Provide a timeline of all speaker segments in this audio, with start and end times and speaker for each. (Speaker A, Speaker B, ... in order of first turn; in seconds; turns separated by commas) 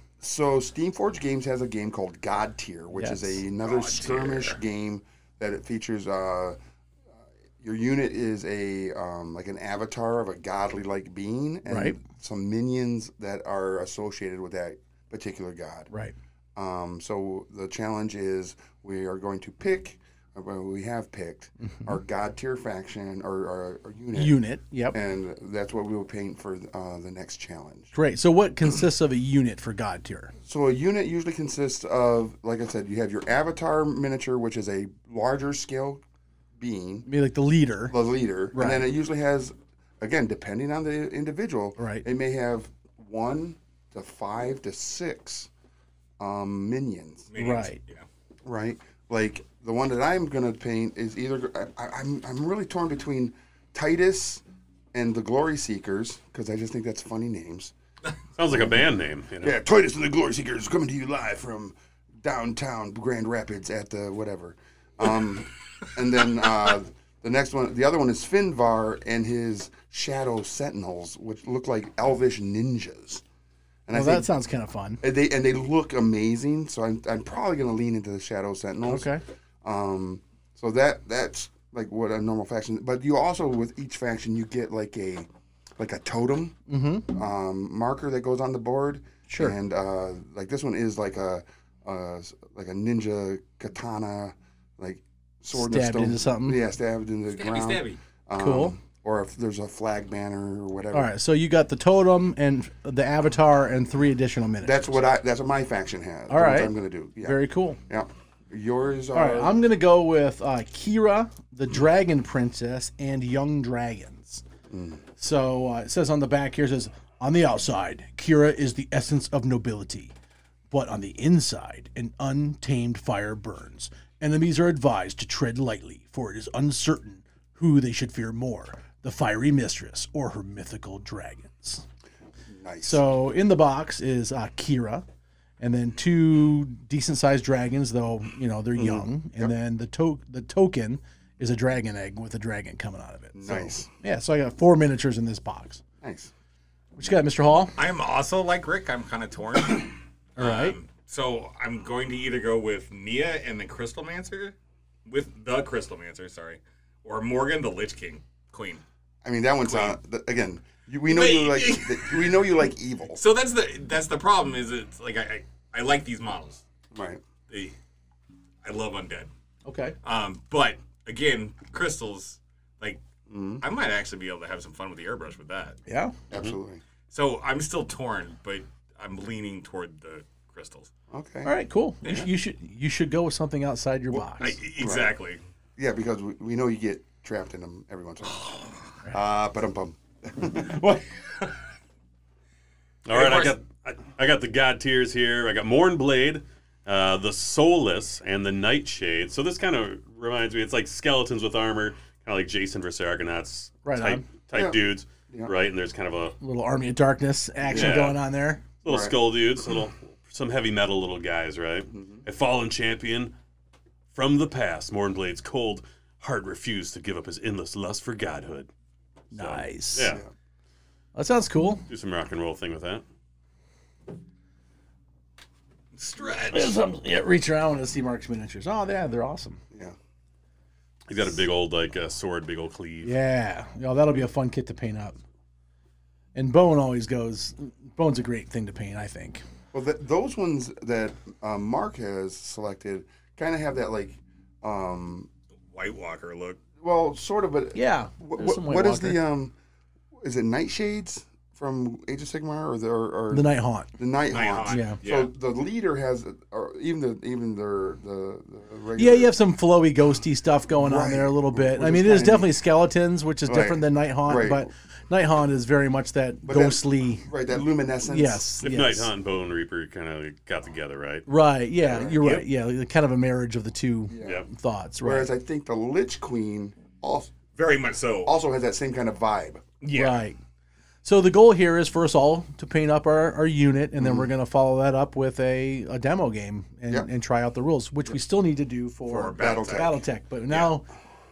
Speaker A: 0.2-6.6, Speaker B: 2.9-3.4, Speaker C: 3.6-4.6, Speaker A: 7.6-15.9, Speaker B: 11.7-12.0, Speaker A: 16.6-24.4, Speaker B: 24.1-25.0, Speaker A: 24.9-27.9, Speaker B: 27.9-30.3, Speaker A: 30.4-36.0, Speaker A: 36.6-37.1, Speaker B: 37.1-38.0, Speaker A: 37.9-45.5, Speaker B: 38.5-38.9, Speaker B: 41.8-42.0, Speaker A: 46.2-47.3, Speaker C: 47.3-48.0, Speaker B: 47.4-47.8, Speaker A: 48.5-57.7, Speaker D: 58.4-59.6, Speaker A: 58.5-58.8, Speaker A: 59.4-73.2, Speaker A: 73.9-74.3, Speaker B: 73.9-75.0, Speaker A: 75.0-79.1, Speaker B: 78.9-79.2, Speaker A: 79.6-86.6, Speaker B: 86.7-87.1, Speaker A: 87.1-101.1, Speaker B: 89.3-89.6, Speaker B: 95.5-96.6, Speaker C: 97.3-98.0, Speaker B: 98.3-98.8, Speaker B: 100.9-105.0, Speaker A: 104.6-109.6, Speaker B: 106.3-107.8, Speaker B: 109.1-114.4, Speaker A: 114.7-115.0, Speaker B: 115.2-120.1, Speaker B: 120.7-131.8, Speaker A: 132.5-133.0, Speaker B: 132.8-135.1, Speaker B: 135.6-145.8, Speaker A: 138.8-139.5, Speaker A: 143.3-143.9, Speaker A: 146.0-146.3, Speaker B: 147.0-147.8, Speaker C: 147.8-154.6, Speaker B: 150.4-150.8, Speaker C: 155.1-158.8, Speaker A: 159.2-163.2, Speaker C: 159.6-160.0, Speaker C: 161.1-162.4, Speaker C: 163.2-166.6, Speaker A: 166.9-167.2, Speaker C: 167.5-167.8, Speaker C: 168.6-169.3, Speaker B: 169.7-170.0, Speaker C: 170.0-173.0, Speaker A: 173.3-173.6, Speaker C: 173.6-175.8, Speaker B: 175.9-176.2, Speaker A: 176.3-176.8, Speaker C: 177.1-180.9, Speaker A: 181.1-181.5, Speaker B: 181.4-184.6, Speaker C: 184.3-185.4, Speaker A: 184.8-185.2, Speaker A: 185.8-191.1, Speaker D: 193.1-206.4, Speaker C: 193.1-193.5, Speaker B: 203.8-204.3, Speaker A: 204.5-205.5, Speaker B: 206.4-208.6, Speaker D: 207.7-208.2, Speaker A: 207.7-208.0, Speaker D: 208.8-213.3, Speaker A: 208.9-209.2, Speaker A: 211.9-212.2, Speaker D: 214.1-218.7, Speaker D: 219.3-220.2, Speaker B: 219.3-220.1, Speaker B: 221.2-221.9, Speaker D: 221.9-223.0, Speaker C: 226.0-226.8, Speaker B: 226.5-229.6, Speaker A: 229.7-230.0, Speaker D: 231.1-233.2, Speaker B: 233.0-235.2, Speaker B: 236.3-239.4, Speaker A: 239.7-245.3, Speaker C: 245.7-246.6, Speaker A: 246.8-249.5, Speaker B: 247.8-249.2, Speaker A: 250.2-259.3, Speaker B: 253.3-253.9, Speaker C: 254.3-255.3, Speaker B: 254.7-255.0, Speaker B: 259.0-267.3, Speaker A: 260.8-262.6, Speaker A: 263.5-264.7, Speaker A: 266.5-268.5, Speaker B: 268.1-269.1, Speaker D: 268.6-271.3, Speaker B: 271.3-275.3, Speaker C: 271.9-272.5, Speaker A: 274.1-274.4, Speaker D: 274.2-274.5, Speaker A: 275.0-277.4, Speaker C: 277.6-278.3, Speaker A: 278.2-279.7, Speaker C: 279.8-280.2, Speaker B: 279.9-280.4, Speaker B: 281.0-290.9, Speaker A: 284.0-284.3, Speaker C: 289.1-290.7, Speaker A: 289.2-290.0